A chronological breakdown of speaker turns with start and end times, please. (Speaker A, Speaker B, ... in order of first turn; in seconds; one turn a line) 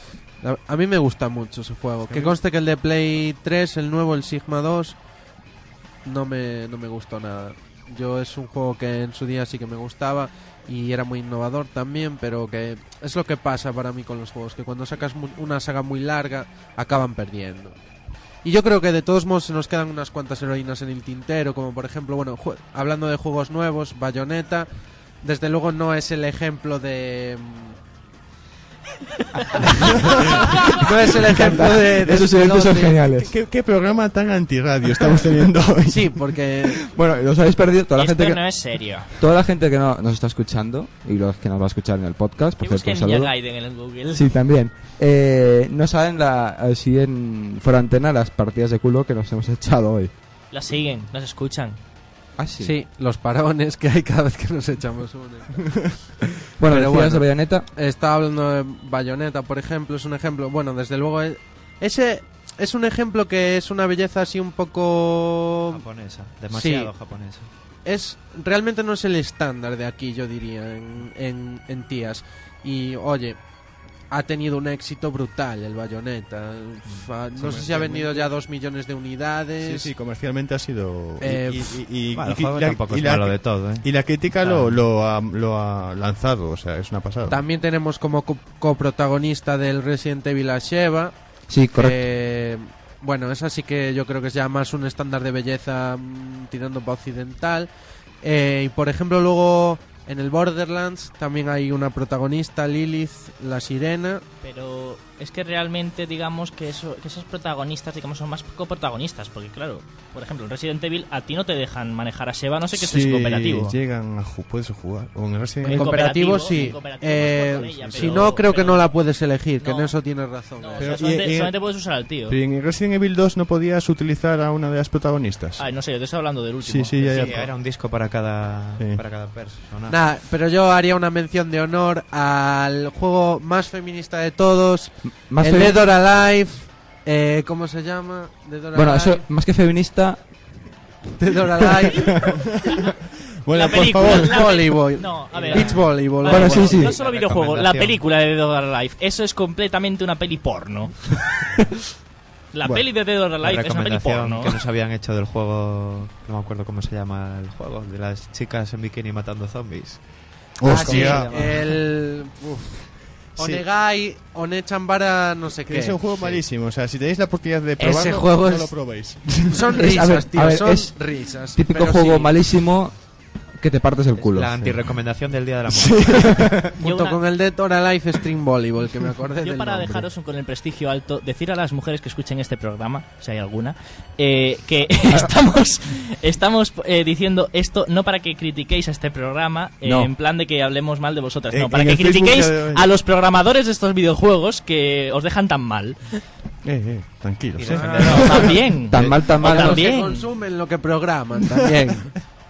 Speaker A: 0.4-5.0
Speaker B: 2.1-2.4
Speaker A: 6.0-17.8
Speaker A: 18.4-24.7
Speaker A: 25.2-27.8
Speaker A: 29.6-33.0
Speaker C: 31.3-33.3
Speaker B: 33.2-36.2
Speaker A: 35.9-36.9
Speaker C: 36.8-43.4
Speaker D: 38.0-39.2
Speaker D: 42.6-44.3
Speaker C: 44.1-50.1
Speaker D: 50.5-51.8
Speaker C: 52.4-52.7
Speaker A: 52.6-55.9
Speaker C: 56.6-57.7
Speaker A: 56.6-65.8
Speaker E: 65.7-67.5
Speaker A: 66.5-66.9
Speaker A: 67.8-73.4
Speaker A: 74.1-79.9
Speaker B: 77.3-78.3
Speaker B: 79.6-87.4
Speaker A: 81.2-81.8
Speaker E: 82.1-84.8
Speaker A: 87.2-91.1
Speaker C: 91.5-92.0
Speaker A: 91.7-97.7
Speaker A: 98.2-104.2
Speaker D: 104.4-113.8
Speaker B: 112.7-116.8
Speaker A: 115.6-121.0
Speaker D: 115.7-118.9
Speaker B: 117.8-118.3
Speaker D: 119.6-119.9
Speaker D: 120.6-122.4
Speaker B: 120.8-125.7
Speaker D: 125.6-127.0
Speaker B: 126.6-127.5
Speaker E: 127.0-130.0
Speaker A: 129.9-139.2
Speaker C: 135.1-135.8
Speaker C: 138.7-140.2
Speaker A: 141.2-142.2
Speaker B: 142.0-142.9
Speaker D: 142.0-142.9
Speaker B: 143.4-144.6
Speaker D: 143.5-151.2
Speaker A: 144.0-146.9
Speaker E: 145.3-148.0
Speaker C: 146.3-146.9
Speaker D: 152.5-154.6
Speaker E: 153.4-160.1
Speaker B: 160.6-161.3
Speaker E: 160.7-161.8
Speaker A: 160.7-166.0
Speaker B: 163.4-163.6
Speaker B: 165.7-169.7
Speaker A: 167.8-172.3
Speaker C: 169.8-171.0
Speaker C: 171.6-173.0
Speaker C: 173.6-174.8
Speaker E: 174.2-176.7
Speaker A: 176.8-180.1
Speaker D: 176.8-177.2
Speaker D: 179.4-196.2
Speaker C: 189.8-190.1
Speaker B: 191.5-192.9
Speaker B: 196.6-198.4
Speaker E: 197.6-199.2
Speaker D: 197.8-200.3
Speaker C: 198.9-199.9
Speaker A: 199.4-202.2